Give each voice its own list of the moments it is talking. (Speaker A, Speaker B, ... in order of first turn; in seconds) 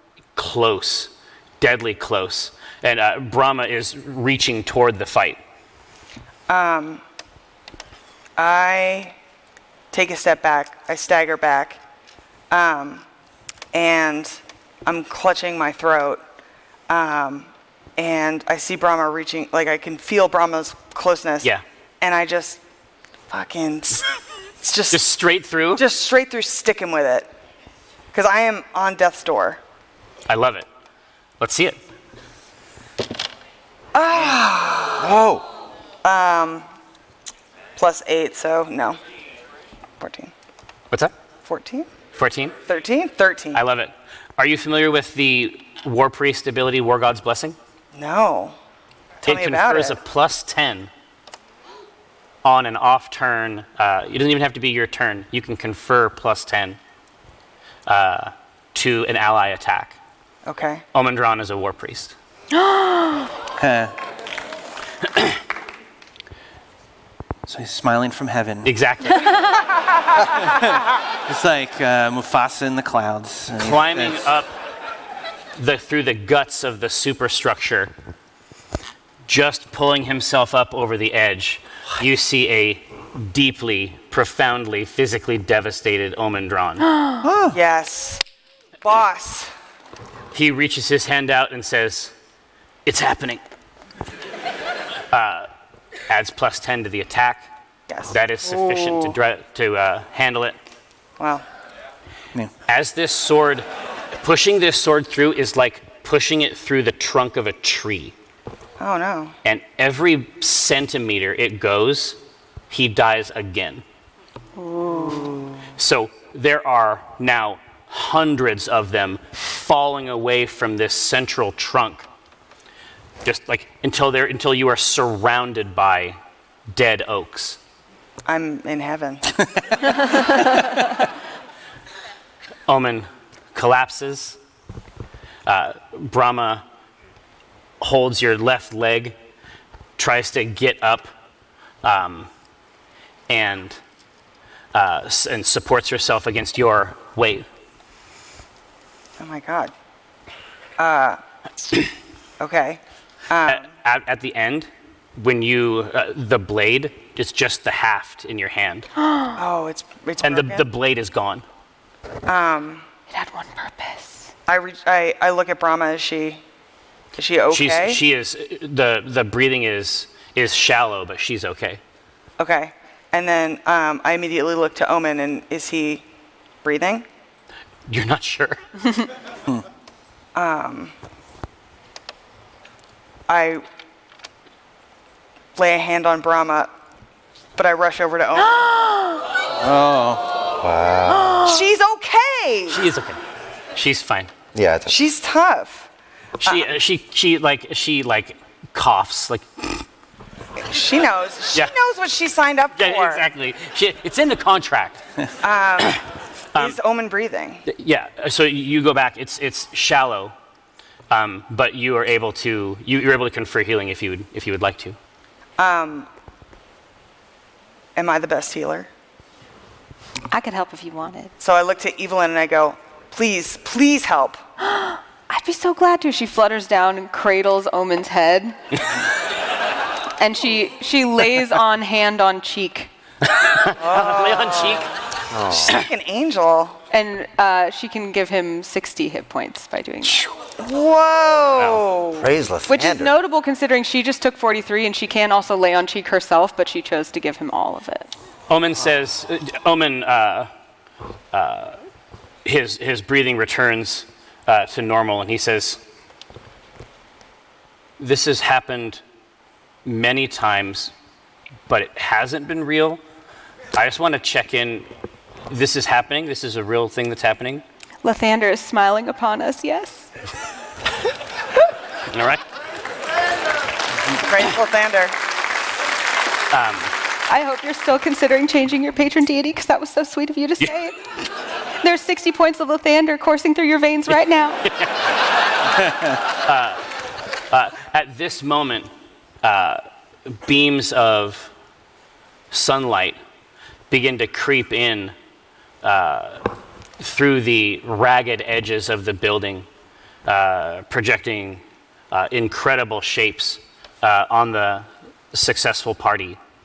Speaker A: 0.3-5.4, 24.9-25.8, 30.3-30.7, 31.4-31.8, 42.1-42.5, 43.5-47.5, 49.2-50.9, 52.4-56.8, 57.9-60.0, 60.9-62.1, 68.6-69.4, 73.6-74.5, 75.5-77.9, 79.3-86.9, 90.3-92.1, 92.8-93.4, 95.1-95.5, 96.1-97.5, 98.1-100.5, 102.7-103.7, 104.2-108.1, 109.4-112.2, 112.7-113.8, 115.7-122.0, 123.2-126.2, 126.7-127.6, 132.7-134.4, 135.4-136.6, 137.8-139.1, 140.0-141.1, 141.8-142.3, 143.3-143.8, 144.7-147.4, 153.4-158.9, 160.2-161.4, 167.5-171.8, 177.9-178.6, 192.7-193.2, 193.7-194.3, 196.4-199.8, 202.7-205.0, 207.7-210.3, 211.1-215.0, 233.4-234.9, 241.6-241.8, 248.5-250.5, 251.3-251.8, 252.4-255.8, 258.0-259.0, 259.8-260.9, 261.7-263.0, 263.7-264.9, 265.5-267.6, 272.1-272.4, 276.5-276.9, 284.6-284.9, 286.4-286.8, 287.5-288.9, 289.4-291.5, 292.5-293.2, 293.9-295.1, 295.8-296.5, 297.0-299.7, 300.2-306.4
Speaker B: 6.5-7.0, 8.4-9.2, 9.9-11.8, 12.5-13.0, 13.7-16.2, 16.9-22.6, 23.3-25.0, 25.7-27.3, 28.1-29.6, 33.9-35.0, 36.0-36.6, 37.8-39.0, 40.0-40.3, 41.4-41.9, 42.7-43.6, 47.9-48.5, 49.2-50.0, 60.5-60.8, 87.5-88.2, 88.8-89.5, 97.9-99.1, 101.2-101.4, 108.8-109.3, 115.0-115.6, 128.2-129.2, 149.2-149.7, 150.8-151.2, 152.4-153.7, 159.3-160.6, 162.2-162.8, 164.5-166.4, 167.2-168.0, 172.4-176.0, 176.6-177.1, 180.3-180.9, 183.3-183.6, 185.6-186.7, 187.5-188.8, 191.4-192.8, 194.9-195.9, 196.4-196.7, 200.6-203.2, 205.4-206.0, 206.6-207.6, 215.6-216.1, 217.9-218.9, 221.4-224.4, 233.8-234.9, 235.6-236.8, 240.6-242.3, 274.1-275.1
Speaker C: 35.0-35.5, 190.5-191.5, 194.5-194.9, 235.3-235.8, 242.2-243.1
Speaker D: 62.6-63.3, 114.6-115.4, 159.0-159.3, 163.1-164.3, 220.3-221.3, 224.6-228.8, 230.2-232.9, 236.9-240.3, 242.7-248.1, 268.0-270.1, 277.3-281.0, 281.8-284.6
Speaker E: 63.6-63.9, 67.5-68.7, 70.3-74.2, 87.2-87.6, 130.2-130.7, 189.6-190.4